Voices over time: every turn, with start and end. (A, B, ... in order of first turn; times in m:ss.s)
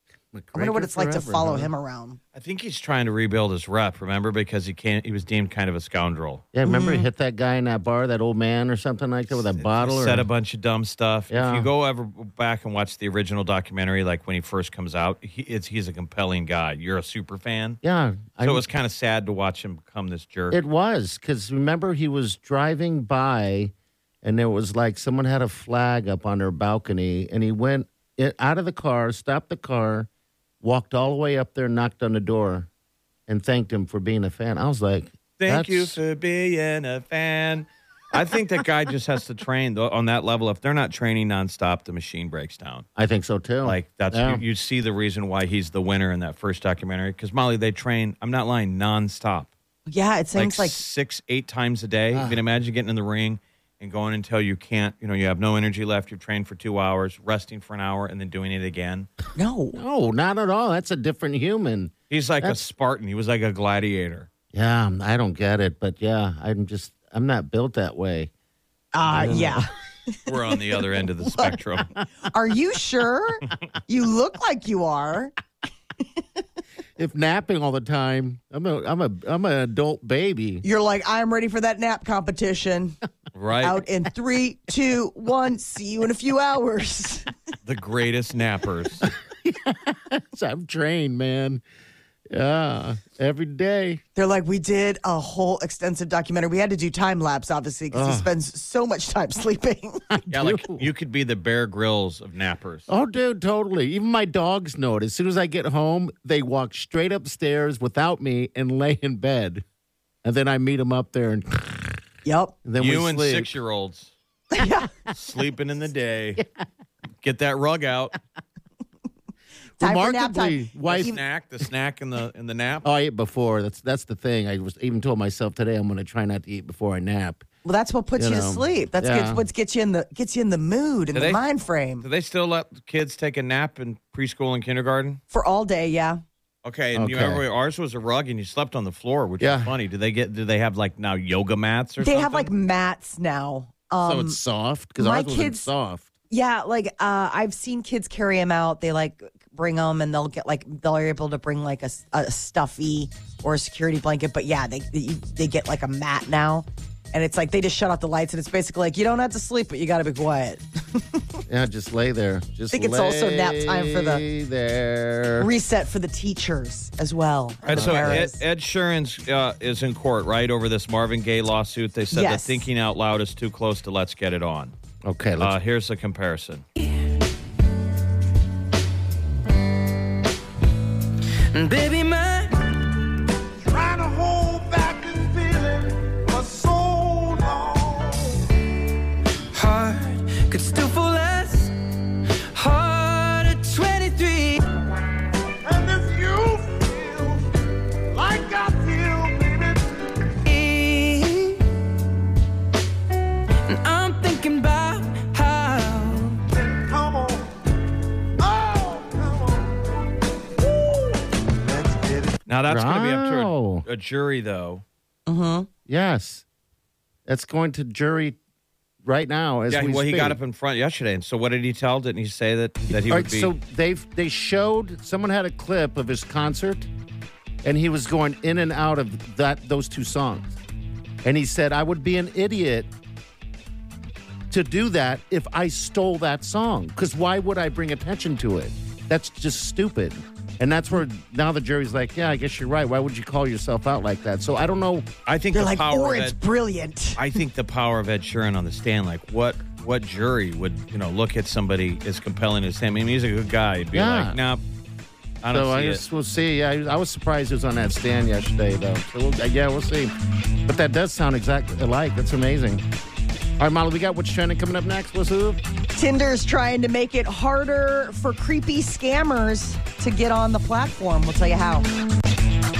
0:00.3-0:01.7 A
0:00.5-0:02.2 B
0:02.3-0:06.4 C
0:06.5-0:10.3 A
0:06.6-0:07.1 B
0:09.3-0:17.8 C
0:11.3-0:11.7 A
0:17.8-0:18.6 A
0:18.4-0:20.6 C
0:20.5-0:30.1 A
0:30.6-0:32.7 A
0:33.3-0:36.0 A
0:35.4-0:42.8 C
0:43.0-0:44.4 A
0:43.6-0:49.5 C
0:49.9-0:50.8 B
0:50.4-0:59.1 C
0:52.1-0:52.4 A
0:59.4-0:59.8 B
0:59.7-1:02.6 A
1:02.1-1:04.3 C
1:04.5-1:08.3 A
1:08.9-1:10.3 B
1:09.0-1:09.6 A
1:10.3-1:11.9 C
1:12.2-1:15.3 B
1:17.0-1:20.6 A
1:20.6-1:23.0 B
1:23.3-1:23.8 C
1:23.6-1:27.3 B
1:27.6-1:29.0 C
1:29.0-1:31.6 A
1:32.3-1:34.0 A
1:34.1-1:40.0 B
1:37.9-1:38.3 A
1:40.1-1:40.9 A
1:40.3-1:42.9 C
1:42.9-1:49.6 A
1:50.2-1:52.0 A
1:52.2-1:52.6 B
1:52.6-1:53.5 A
1:52.8-1:54.1 C
1:54.5-1:54.9 B
1:55.1-1:56.4 C
1:57.2-1:58.2 C
1:59.8-2:01.2 A
1:59.8-2:01.2 B
2:00.9-2:02.9 C
2:02.8-2:07.4 A
2:07.6-2:12.0 B
2:08.2-2:09.4 A
2:11.1-2:11.4 C
2:12.0-2:15.2 C
2:15.3-2:16.2 B
2:16.6-2:22.5 C
2:16.9-2:17.4 A
2:19.4-2:19.7 A
2:22.0-2:24.4 B
2:24.0-2:26.1 A
2:25.0-2:25.7 B
2:26.3-2:41.2 B
2:41.5-2:45.5 A
2:42.7-2:44.2 B
2:45.4-2:48.4 B
2:47.6-2:54.7 C
2:47.7-2:48.3 A
2:52.1-2:52.7 B
2:55.0-2:55.6 A
2:55.4-2:56.6 C
3:01.5-3:02.7 D
3:03.7-3:08.3 E
3:09.5-3:11.7 D
3:12.5-3:14.6 D
3:15.7-3:17.4 E
3:18.1-3:19.8 E
3:20.4-3:21.6 D
3:23.6-3:26.4 D
3:26.6-3:27.4 E
3:28.4-3:29.7 E
3:30.7-3:31.1 E
3:31.6-3:32.3 E
3:32.5-3:34.8 C
3:32.7-3:33.8 A
3:35.3-3:35.7 B
3:35.9-3:36.4 A
3:37.3-3:38.4 A
3:39.0-3:40.4 A
3:39.7-3:43.5 C
3:42.9-3:46.9 A
3:47.6-3:50.6 A
3:51.2-3:52.9 A
3:54.5-4:05.1 A
4:05.2-4:06.3 C
4:05.5-4:07.4 B
4:07.2-4:14.6 C
4:13.9-4:14.4 A
4:15.4-4:16.0 C
4:15.5-4:20.1 A
4:20.6-4:22.8 A
4:23.6-4:25.6 A
4:25.9-4:31.9 B